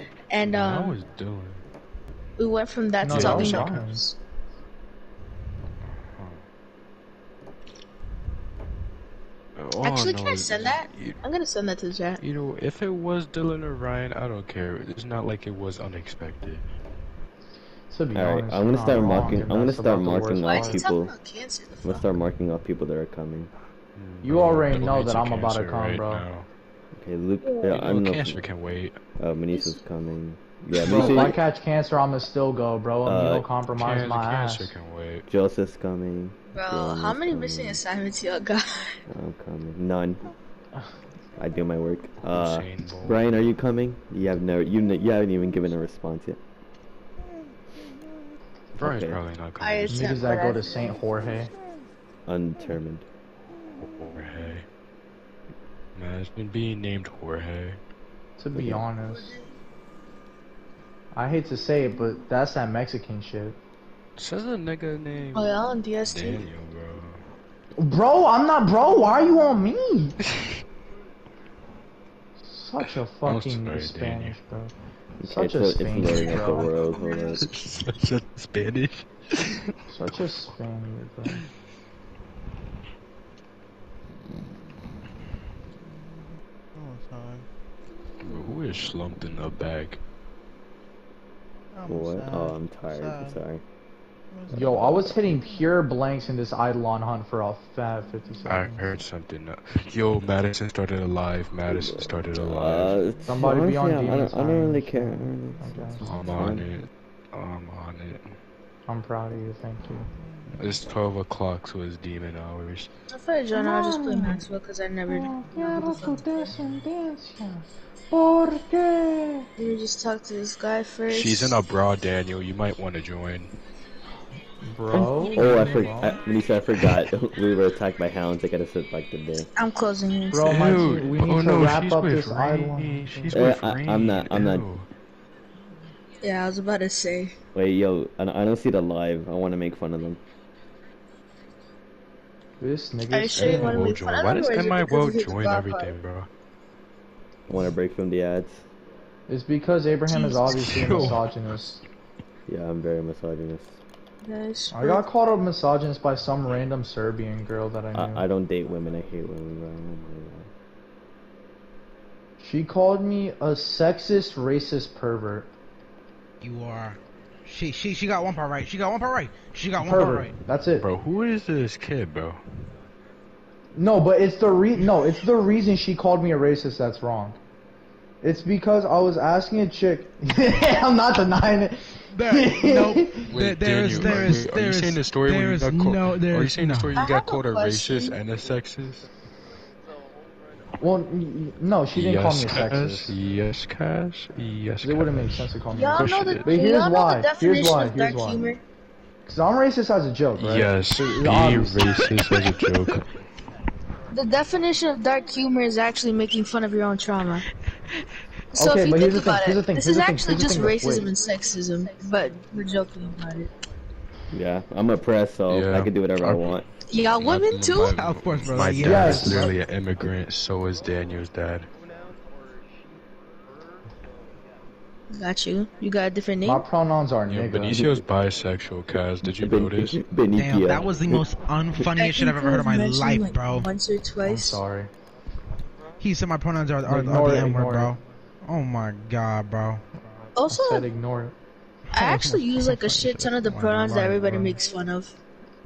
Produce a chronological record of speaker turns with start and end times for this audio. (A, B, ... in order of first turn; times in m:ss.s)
0:00.3-0:01.0 A
0:00.4-0:01.6 B
0:02.4-0:04.2 A
0:03.0-0:04.0 C
0:03.1-0:03.8 B
0:05.9-0:06.4 B
0:09.6-0:11.2 B
0:09.8-0:12.2 A
0:12.2-0:16.6 B
0:17.9-0:20.9 C
0:18.1-0:21.1 D
0:18.9-0:19.3 A
0:20.4-0:22.1 A
0:21.8-0:23.5 D
0:24.0-0:26.5 B
0:24.2-0:26.2 C
0:26.9-0:28.4 D
0:27.4-0:27.7 A
0:27.6-0:29.0 B
0:29.2-0:31.4 D
0:29.5-0:29.8 A
0:30.7-0:34.7 C
0:30.8-0:31.2 B
0:33.0-0:33.5 D
0:33.7-0:35.3 B
0:35.3-0:37.8 D
0:36.5-0:39.0 A
0:39.1-0:40.2 D
0:41.4-0:46.4 D
0:42.2-0:43.3 B
0:48.8-0:49.2 D
0:48.8-0:50.4 B
0:49.6-0:50.9 A
0:49.9-0:51.5 C
0:52.2-0:53.0 D
0:53.8-0:54.6 B
0:56.0-0:57.8 B
0:58.4-0:59.4 C
0:58.5-0:58.8 D
1:01.1-1:03.6 C
1:04.2-1:07.2 B
1:05.3-1:06.5 A
1:07.8-1:10.2 C
1:10.3-1:10.6 B
1:12.4-1:14.7 C
1:12.8-1:14.4 B
1:15.2-1:17.4 D
1:15.2-1:16.7 C
1:16.0-1:16.6 B
1:17.4-1:19.6 B
1:19.9-1:21.4 C
1:26.7-1:27.4 E
1:28.2-1:30.0 B
1:31.7-1:33.4 E
1:31.9-1:33.6 D
1:34.5-1:38.8 C
1:34.8-1:35.1 D
1:38.4-1:43.0 B
1:41.7-1:46.7 D
1:43.3-1:46.1 C
1:46.0-1:48.3 B
1:48.9-1:50.1 C
1:50.6-1:52.9 B
1:53.1-1:56.5 A
1:53.5-1:54.5 C
1:55.1-1:59.5 C
1:59.6-2:01.6 A
2:01.1-2:03.5 B
2:04.6-2:06.1 C
2:04.9-2:09.5 D
2:09.6-2:10.8 A
2:10.3-2:13.3 C
2:10.4-2:14.9 B
2:13.3-2:14.7 D
2:16.2-2:17.3 A
2:17.5-2:20.2 D
2:22.6-2:23.9 C
2:23.1-2:25.9 A
2:23.4-2:26.3 B
2:27.5-2:28.6 D
2:29.3-2:31.8 C
2:30.1-2:31.1 A
2:30.5-2:31.2 B
2:32.5-2:33.8 D
2:34.2-2:35.0 A
2:34.7-2:38.2 C
2:37.9-2:40.5 D
2:42.4-2:45.5 C
2:46.4-2:50.3 E
2:49.8-2:50.9 C
2:50.8-2:52.4 B
2:53.7-2:57.4 C
2:58.2-3:03.3 C
3:02.1-3:07.0 E
3:03.3-3:09.1 B
3:07.0-3:08.2 A
3:10.8-3:13.2 C
3:11.9-3:16.5 B
3:14.8-3:18.5 C
3:15.7-3:18.6 A
3:19.3-3:22.1 C
3:20.4-3:23.1 B
3:24.1-3:27.4 A
3:28.5-3:31.1 C
3:28.5-3:33.5 A
3:34.3-3:36.6 D
3:35.5-3:36.6 B
3:36.9-3:38.0 A
3:37.1-3:41.7 B
3:37.8-3:39.4 E
3:38.8-3:39.6 C
3:45.1-3:46.7 A
3:46.4-3:47.8 C
3:47.3-3:50.0 B
3:47.7-3:48.1 D
3:49.2-3:51.8 D
3:50.3-3:53.7 E
3:52.0-3:54.6 A
3:54.2-3:54.9 C
3:56.0-3:59.8 E
3:56.9-3:58.0 C
4:00.4-4:00.9 A
4:00.5-4:01.3 C
4:01.9-4:04.6 E
4:01.9-4:05.2 A